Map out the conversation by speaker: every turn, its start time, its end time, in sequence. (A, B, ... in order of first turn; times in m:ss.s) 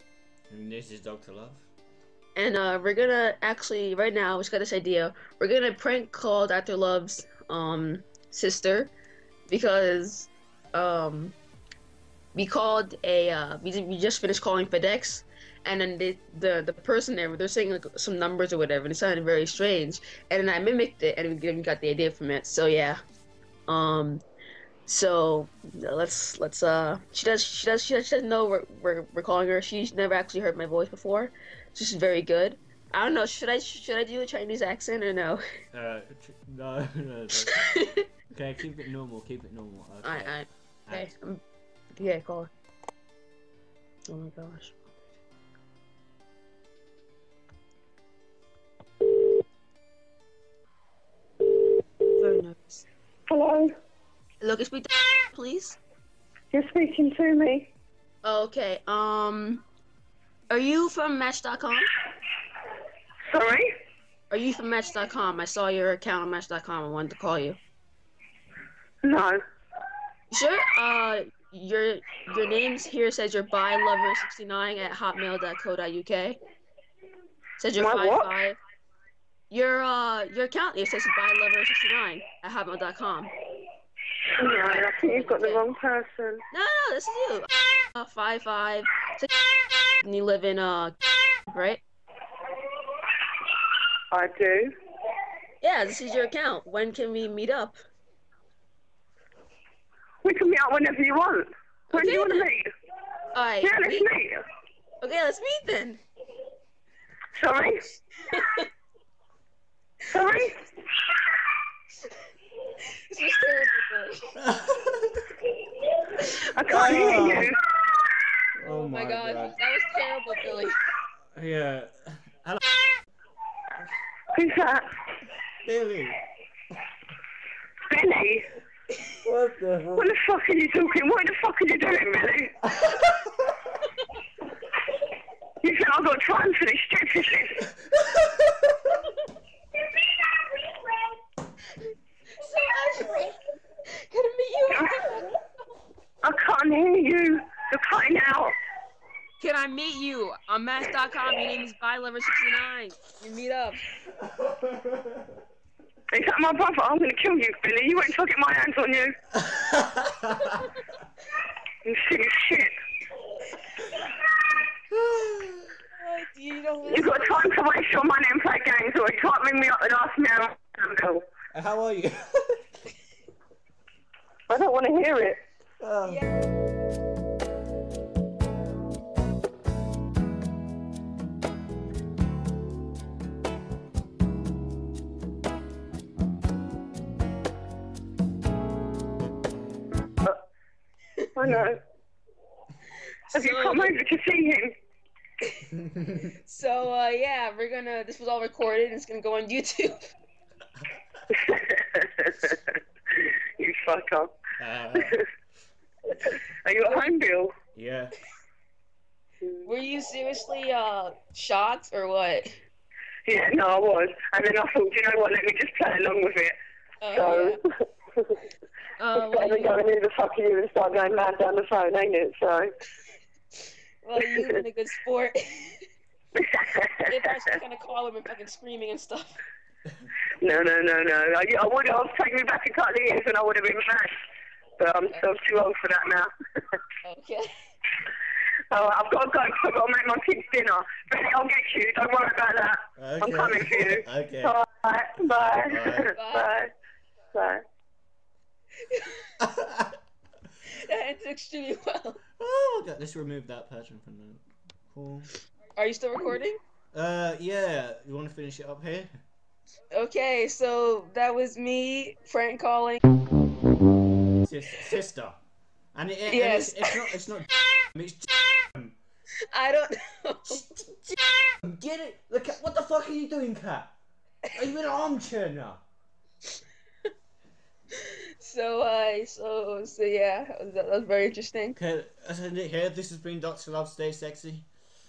0:00.5-0:01.7 A
0:02.4-0:08.9 B
0:09.5-0:11.4 B
0:12.3-0:23.0 B
0:23.7-0:24.2 B
0:24.8-0:35.4 B
0:35.7-0:37.5 A
0:37.5-0:38.0 B
0:38.3-0:41.1 A
0:40.0-0:41.4 B
0:42.0-0:42.5 B
0:44.1-0:44.8 B
0:52.2-0:52.8 B
0:53.3-0:53.7 C
0:54.4-0:55.8 B
0:56.5-0:57.7 C
0:58.2-0:59.6 B
1:00.5-1:01.9 B
1:03.3-1:03.7 C
1:04.3-1:07.6 B
1:09.0-1:09.4 C
1:10.3-1:16.4 B
1:17.6-1:18.6 B
1:17.8-1:18.3 C
1:19.5-1:23.3 B
1:24.3-1:26.4 C
1:24.7-1:25.6 B
1:26.5-1:29.3 B
1:30.0-1:31.0 B
1:31.5-1:31.8 B
1:34.1-1:34.7 C
1:35.6-1:37.8 B
1:40.2-1:42.7 C
1:41.9-1:42.4 B
1:43.3-1:44.1 B
1:43.6-1:44.4 C
1:45.0-1:46.0 B
1:47.4-1:48.0 C
1:48.3-1:48.7 B
1:50.1-1:50.6 C
1:52.8-1:54.3 B
1:54.4-1:55.3 A
1:55.7-1:57.6 C
1:56.2-1:56.5 B
1:56.7-1:57.5 A
1:58.5-1:59.5 A
1:58.6-2:00.7 B
2:01.3-2:02.6 A
2:04.3-2:04.8 C
2:05.6-2:06.2 A
2:07.9-2:08.5 C
2:09.2-2:10.1 A
2:10.0-2:12.6 C
2:12.8-2:13.1 A
2:15.6-2:17.7 C
2:22.3-2:25.3 B
2:24.7-2:25.2 C
2:26.2-2:28.5 C
2:29.4-2:33.8 B
2:34.2-2:35.2 A
2:36.1-2:39.2 C
2:39.5-2:40.5 A
2:41.8-2:42.7 C
2:44.9-2:45.7 A
2:46.0-2:47.4 B
2:46.9-2:51.2 C
2:51.5-2:52.6 A
2:54.5-2:55.4 C
2:55.8-2:56.2 A
2:56.0-2:56.4 B
3:11.3-3:11.8 C
3:13.3-3:13.9 B
3:13.3-3:14.8 C
3:15.4-3:20.0 B
3:15.9-3:16.2 A
3:21.3-3:24.3 C
3:24.6-3:25.2 A
3:24.9-3:25.2 C
3:26.1-3:27.5 C
3:26.9-3:27.1 B
3:27.7-3:28.1 A
3:29.6-3:32.5 B
3:33.2-3:36.6 C
3:37.0-3:37.6 B
3:37.1-3:37.6 C
3:39.0-3:39.8 B
3:39.2-3:42.7 C
3:44.0-3:45.8 B
3:44.2-3:44.6 C
3:46.4-3:47.2 C
3:47.0-3:49.4 B
3:50.4-3:54.1 C
3:54.8-3:56.8 C
3:57.0-3:57.5 B
3:58.7-4:06.7 C
4:03.0-4:04.5 A
4:05.6-4:06.1 A
4:06.1-4:06.5 B
4:07.3-4:07.6 C
4:08.9-4:09.3 B
4:09.4-4:09.9 A
4:10.6-4:12.2 B
4:12.4-4:15.3 A
4:15.8-4:16.6 B
4:16.9-4:19.1 A
4:19.9-4:23.0 B
4:24.4-4:25.4 A
4:25.9-4:29.0 A
4:26.3-4:27.2 B
4:29.5-4:30.8 B
4:31.1-4:33.9 A
4:34.5-4:35.8 A
4:38.0-4:41.8 B
4:41.8-4:44.7 A